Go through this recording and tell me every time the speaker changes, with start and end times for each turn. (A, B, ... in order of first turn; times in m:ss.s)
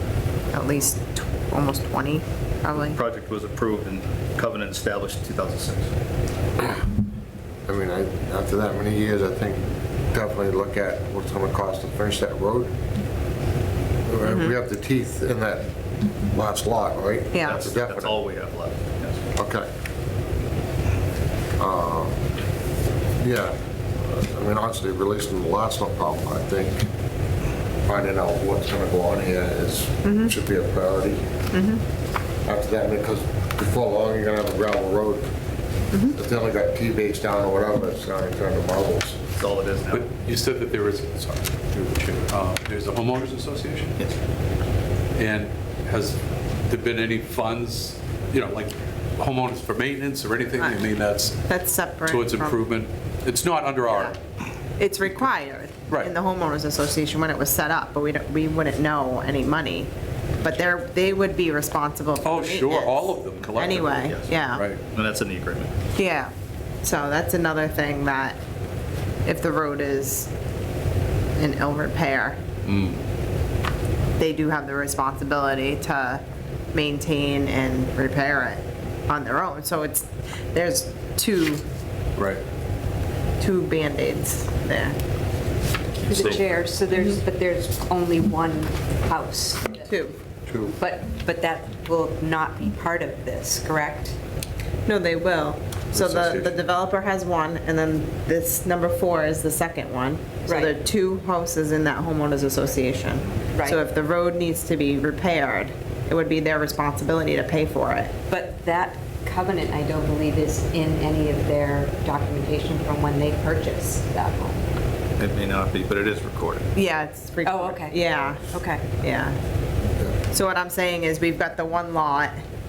0:00.5-0:03.0 A
0:02.8-0:05.9 B
0:07.7-0:12.7 C
0:14.1-0:15.7 C
0:14.2-0:14.6 A
0:16.3-0:18.2 C
0:17.3-0:17.6 A
0:17.4-0:19.3 B
0:19.4-0:19.7 C
0:21.6-0:22.2 C
0:23.2-0:23.6 C
0:24.1-0:26.9 C
0:27.8-0:31.2 C
0:30.0-0:30.3 A
0:31.5-0:31.8 A
0:32.5-0:35.3 C
0:36.1-0:39.2 C
0:39.4-0:40.1 B
0:39.9-0:43.9 D
0:45.2-0:51.4 D
0:51.5-0:52.6 A
0:52.1-0:54.2 D
0:54.8-0:59.9 A
1:00.4-1:04.7 A
1:02.2-1:04.8 D
1:04.0-1:05.7 B
1:06.0-1:06.3 A
1:06.8-1:08.4 A
1:09.2-1:10.3 A
1:11.4-1:12.4 A
1:12.6-1:13.0 D
1:14.2-1:21.6 A
1:22.2-1:22.4 D
1:23.4-1:25.0 A
1:26.0-1:26.5 B
1:26.1-1:30.0 E
1:29.8-1:30.2 A
1:30.5-1:30.8 C
1:30.8-1:34.2 E
1:34.9-1:48.2 A
1:40.5-1:40.8 E
1:43.5-1:43.8 E
1:48.3-1:54.6 E
1:55.2-1:56.7 B
1:56.8-1:59.4 A
1:57.4-1:59.0 E
2:00.3-2:02.4 A